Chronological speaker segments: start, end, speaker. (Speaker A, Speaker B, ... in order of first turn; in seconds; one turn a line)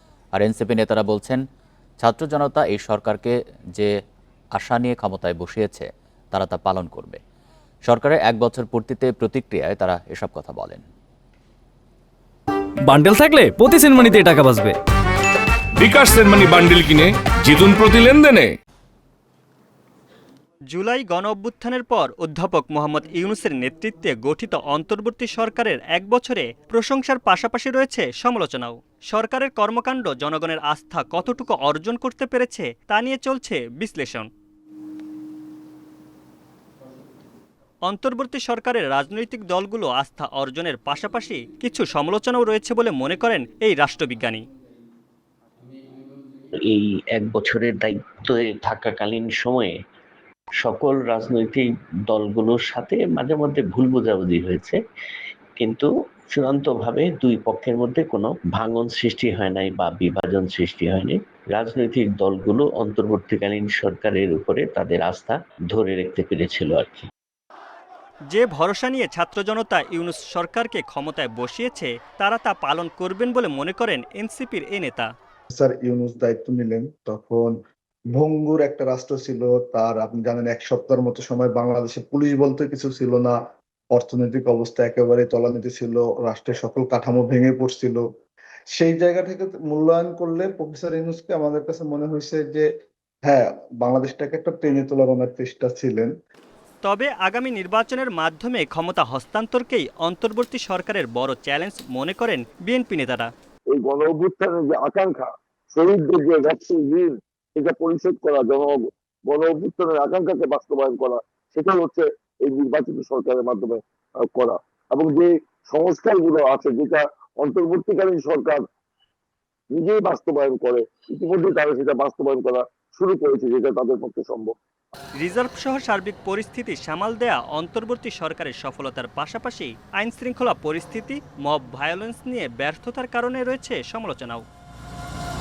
Speaker A: 0.4-1.4
Speaker A: 2.0-3.9
Speaker A: 4.6-7.2
Speaker A: 7.9-10.8
Speaker B: 12.8-14.8
Speaker C: 15.8-18.6
Speaker D: 20.7-34.3
Speaker D: 37.9-44.5
Speaker E: 46.6-49.8
Speaker E: 50.6-54.8
Speaker E: 55.6-67.1
Speaker D: 68.3-75.1
Speaker F: 75.5-77.6
Speaker F: 78.1-83.4
Speaker F: 83.9-88.0
Speaker F: 88.7-92.7
Speaker F: 93.2-96.1
Speaker D: 96.8-103.3
Speaker G: 103.7-118.6
Speaker G: 119.7-124.5
Speaker D: 125.2-134.4